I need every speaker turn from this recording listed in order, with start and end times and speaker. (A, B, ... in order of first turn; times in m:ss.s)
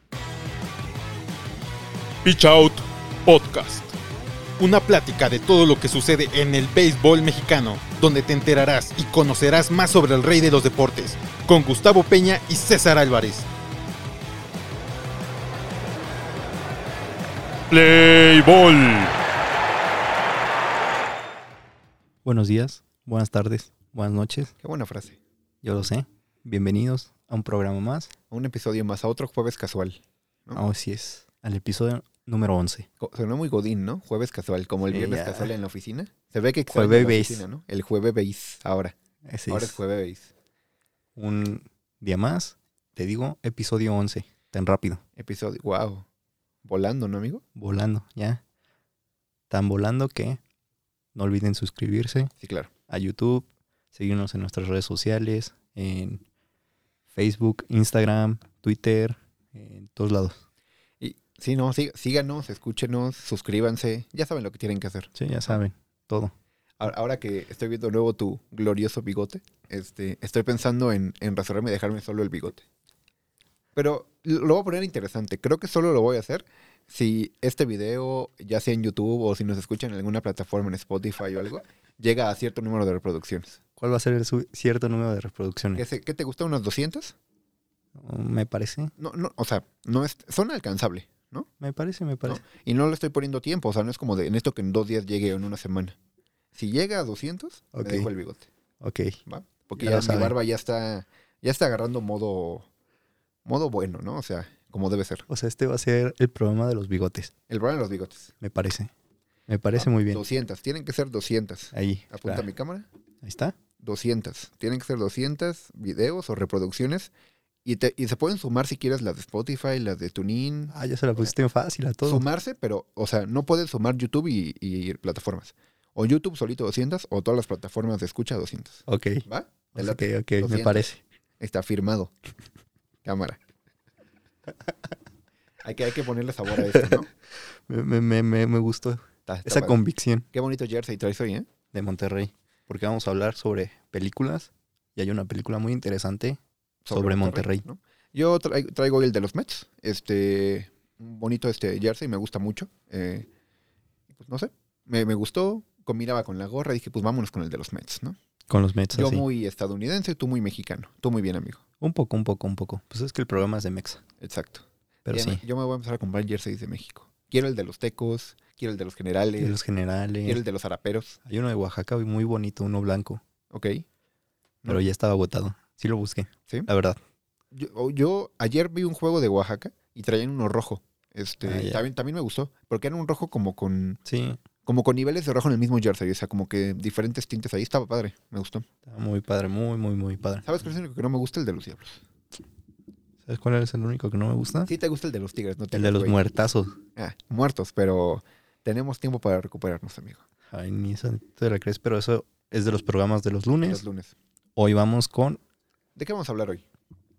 0:02.2-0:03.9 A
0:04.6-0:13.5 A
0:17.7-0:19.1 A
0:22.2-0:24.5 B
0:24.6-0:25.2 C
0:25.6-0:28.1 B
0:28.3-0:30.6 C
0:30.6-0:32.9 B
0:33.0-0:39.0 C
0:34.9-0:35.5 B
0:36.7-0:37.4 B
0:39.3-0:39.8 B
0:39.5-0:40.3 C
0:41.2-0:45.0 B
0:45.2-0:46.1 C
0:46.6-0:47.4 C
0:47.6-0:48.4 B
0:49.5-0:50.4 B
0:51.2-0:52.3 B
0:52.4-0:52.7 C
0:52.9-0:56.2 B
0:57.1-1:00.4 B
1:01.0-1:05.6 C
1:05.2-1:06.3 B
1:06.8-1:12.6 C
1:13.8-1:23.6 C
1:23.8-1:25.8 B
1:25.8-1:27.2 C
1:28.0-1:28.9 B
1:29.0-1:31.5 C
1:31.6-1:32.4 B
1:32.2-1:36.0 C
1:36.5-1:38.5 C
1:37.7-1:38.1 B
1:38.8-1:39.2 B
1:39.3-1:42.7 C
1:39.8-1:40.4 B
1:43.4-1:45.3 C
1:45.3-1:47.3 B
1:47.5-1:48.3 C
1:48.4-1:48.9 B
1:49.5-1:50.2 B
1:49.8-1:52.9 C
1:51.7-1:52.5 B
1:53.2-1:53.6 B
1:53.8-1:57.1 C
1:57.6-2:01.3 C
2:00.7-2:02.2 B
2:02.0-2:10.9 C
2:08.9-2:11.0 B
2:11.4-2:12.1 C
2:13.0-2:13.4 C
2:15.6-2:17.1 C
2:16.7-2:17.0 B
2:17.7-2:20.3 B
2:19.3-2:19.8 C
2:20.3-2:21.5 C
2:21.7-2:26.4 B
2:26.8-2:33.3 C
2:26.9-2:27.6 B
2:34.1-2:38.2 C
2:38.5-2:39.2 B
2:38.9-2:41.6 C
2:41.8-2:44.0 B
2:44.2-2:49.6 C
2:45.1-2:45.4 B
2:49.4-2:50.4 B
2:50.2-2:51.2 C
2:51.3-2:53.2 B
2:53.5-2:53.9 C
2:54.7-2:57.0 B
2:57.5-3:04.0 C
3:01.5-3:01.8 B
3:04.1-3:04.4 B
3:04.7-3:08.7 C
3:08.9-3:10.4 B
3:10.4-3:12.0 C
3:13.3-3:14.7 B
3:14.7-3:16.2 C
3:15.7-3:16.8 B
3:17.0-3:20.2 C
3:20.5-3:23.8 B
3:23.7-3:24.2 C
3:24.6-3:25.4 B
3:26.0-3:26.6 C